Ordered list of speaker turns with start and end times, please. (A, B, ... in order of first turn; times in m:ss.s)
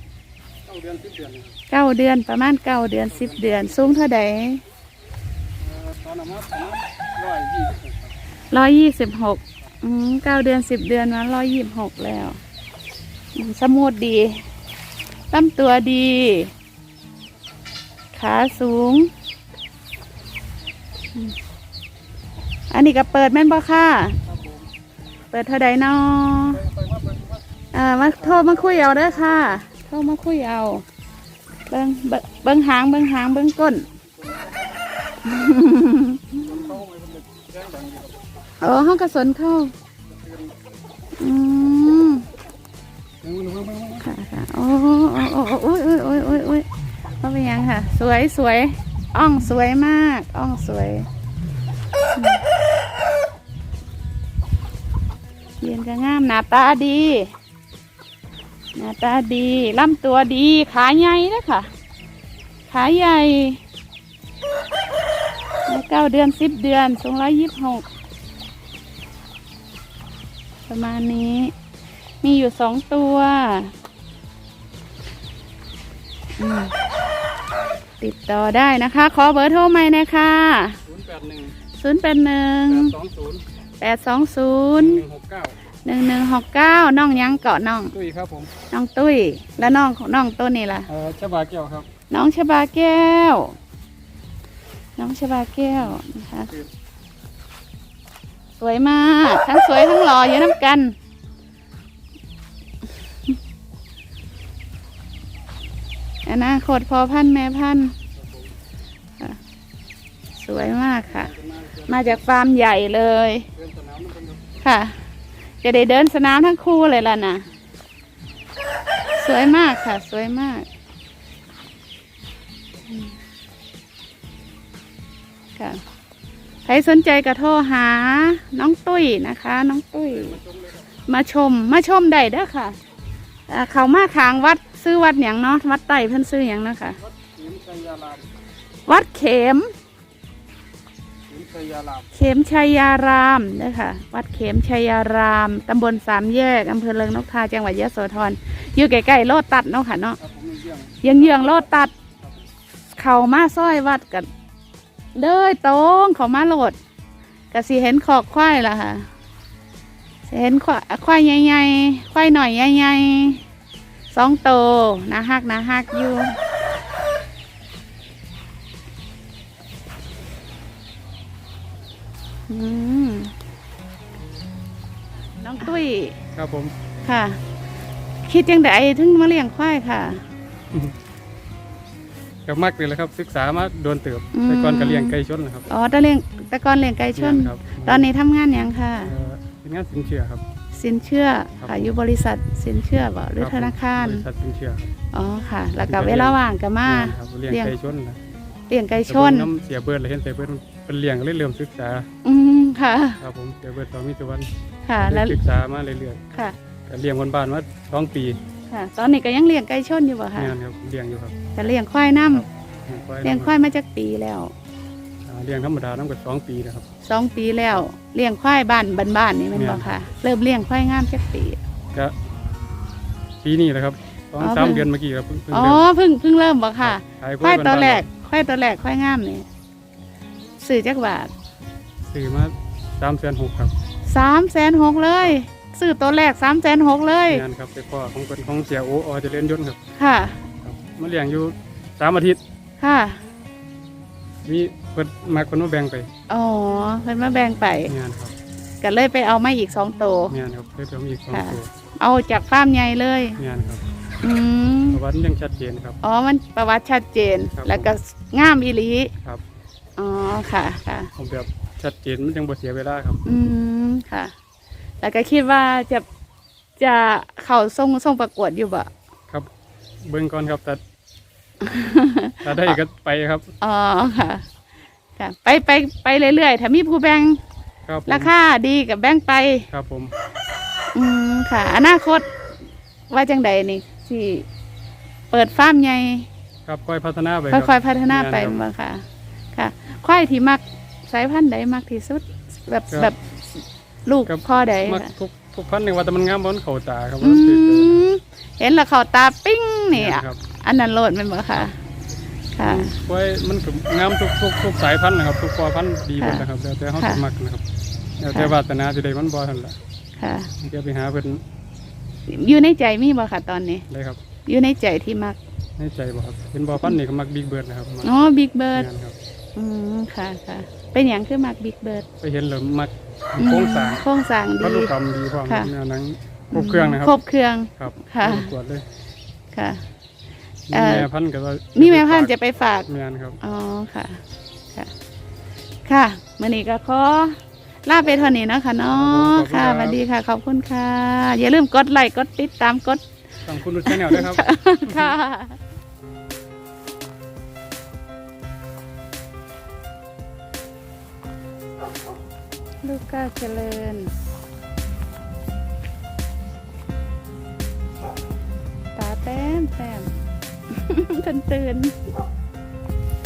0:00.7-0:01.5 A
0:01.7-0:04.6 B
0:03.1-0:03.9 A
0:05.6-0:08.2 A
0:08.5-0:12.4 B
0:13.4-0:14.4 B
0:15.3-0:16.5 B
0:18.1-0:19.1 B
0:22.7-0:24.2 B
0:24.2-0:24.7 A
0:25.3-0:26.6 B
0:26.5-0:27.4 A
0:27.7-0:30.8 B
0:28.0-0:29.6 A
0:31.7-0:33.9 B
0:34.1-0:34.8 A
0:35.2-0:36.7 B
0:36.4-0:38.2 A
0:38.6-0:39.7 B
0:40.1-0:40.5 A
0:41.2-0:42.3 B
0:43.2-0:44.1 A
0:44.0-0:46.7 B
0:46.2-0:46.5 A
0:47.2-0:51.1 B
0:52.2-0:52.4 B
0:55.6-0:57.3 B
0:58.8-1:01.7 B
1:02.7-1:03.6 B
1:05.7-1:07.8 B
1:10.7-1:11.5 B
1:12.2-1:13.7 B
1:16.4-1:16.7 B
1:18.0-1:20.8 B
1:20.9-1:21.6 A
1:21.8-1:22.9 B
1:22.7-1:23.4 A
1:23.8-1:25.0 B
1:24.8-1:25.6 A
1:25.8-1:27.9 B
1:27.9-1:28.5 A
1:28.7-1:30.9 B
1:30.9-1:31.9 A
1:32.1-1:33.6 B
1:35.0-1:36.5 B
1:35.8-1:36.7 A
1:38.6-1:41.0 B
1:46.2-1:48.0 B
1:48.2-1:48.5 A
1:50.4-1:51.3 B
1:50.5-1:52.2 A
1:51.9-1:53.5 B
1:53.6-1:54.6 A
1:54.6-1:55.0 B
1:55.6-1:57.5 B
1:59.2-2:00.7 B
2:06.6-2:10.4 B
2:10.1-2:10.9 A
2:11.1-2:12.8 B
2:13.5-2:17.0 B
2:17.0-2:18.2 A
2:18.9-2:19.7 B
2:21.3-2:22.1 A
2:22.1-2:30.2 B
2:30.2-2:32.5 A
2:31.0-2:31.9 B
2:33.0-2:34.3 B
2:35.2-2:36.8 B
2:37.5-2:39.1 B
2:40.3-2:43.4 B
2:44.1-2:46.4 B
2:52.5-2:53.3 B
2:55.4-2:56.2 B
2:56.4-2:56.7 A
2:57.0-2:57.4 B
2:58.3-3:00.2 B
3:02.5-3:05.7 A
3:04.3-3:05.2 B
3:05.7-3:09.1 B
3:07.2-3:08.1 A
3:09.0-3:10.4 A
3:10.7-3:14.2 B
3:11.6-3:11.9 A
3:13.4-3:14.9 A
3:15.1-3:17.7 B
3:15.8-3:18.2 A
3:18.7-3:19.5 B
3:19.1-3:22.1 A
3:22.2-3:23.2 B
3:23.2-3:24.5 A
3:24.9-3:25.4 B
3:25.0-3:26.3 A
3:26.9-3:28.4 A
3:28.7-3:30.6 B
3:30.4-3:31.3 A
3:31.6-3:32.5 B
3:32.3-3:33.5 A
3:33.2-3:34.5 B
3:35.2-3:36.9 A
3:37.0-3:41.6 B
3:39.5-3:39.9 A
3:43.4-3:45.9 A
3:44.4-3:44.9 B
3:45.5-3:49.5 B
3:46.8-3:48.0 A
3:50.6-3:51.3 B
3:52.1-3:53.7 A
3:54.1-3:57.4 B
3:57.3-3:59.8 A
4:00.0-4:00.4 B
4:00.6-4:02.4 A
4:02.8-4:03.2 B
4:04.4-4:06.1 A
4:06.3-4:07.9 B
4:07.9-4:08.3 A
4:08.8-4:10.4 B
4:10.3-4:11.7 A
4:11.3-4:13.4 B
4:13.4-4:13.8 A
4:14.2-4:15.0 B
4:14.9-4:16.0 A
4:16.0-4:19.1 B
4:17.6-4:17.9 A
4:20.0-4:21.1 B
4:21.2-4:23.2 A
4:23.2-4:24.3 B
4:25.0-4:26.1 B
4:26.8-4:28.9 B
4:30.0-4:30.8 A
4:31.6-4:32.8 B
4:32.4-4:33.4 A
4:33.6-4:34.4 B
4:35.2-4:37.4 B
4:37.9-4:38.3 A
4:38.1-4:39.7 B
4:39.7-4:40.1 A
4:40.9-4:42.3 B
4:43.1-4:44.5 B
4:45.3-4:46.3 B
4:46.7-4:48.6 A
4:47.5-4:53.3 B
4:54.1-4:55.1 B
4:54.3-4:58.1 A
4:57.2-5:01.8 B
4:59.9-5:00.4 A
5:02.6-5:03.0 B
5:02.6-5:07.6 A
5:06.2-5:06.4 B
5:07.0-5:07.2 B
5:08.2-5:09.8 A
5:10.2-5:10.5 B
5:10.6-5:11.4 A
5:12.3-5:13.8 B
5:13.9-5:14.2 A
5:14.5-5:15.4 B
5:15.8-5:18.1 A
5:18.0-5:18.9 B
5:18.7-5:19.2 A
5:19.6-5:22.1 B
5:22.2-5:24.0 A
5:23.4-5:24.9 B
5:24.6-5:27.2 A
5:26.5-5:28.5 B
5:27.8-5:28.8 A
5:29.5-5:29.8 B
5:30.7-5:32.3 A
5:30.7-5:31.1 B
5:31.8-5:32.9 B
5:32.9-5:33.4 A
5:33.4-5:34.2 B
5:35.9-5:43.0 B
5:38.9-5:40.0 A
5:43.5-5:45.2 A
5:43.9-5:45.6 B
5:52.8-5:54.1 B
5:59.0-6:00.1 B
6:00.7-6:02.0 B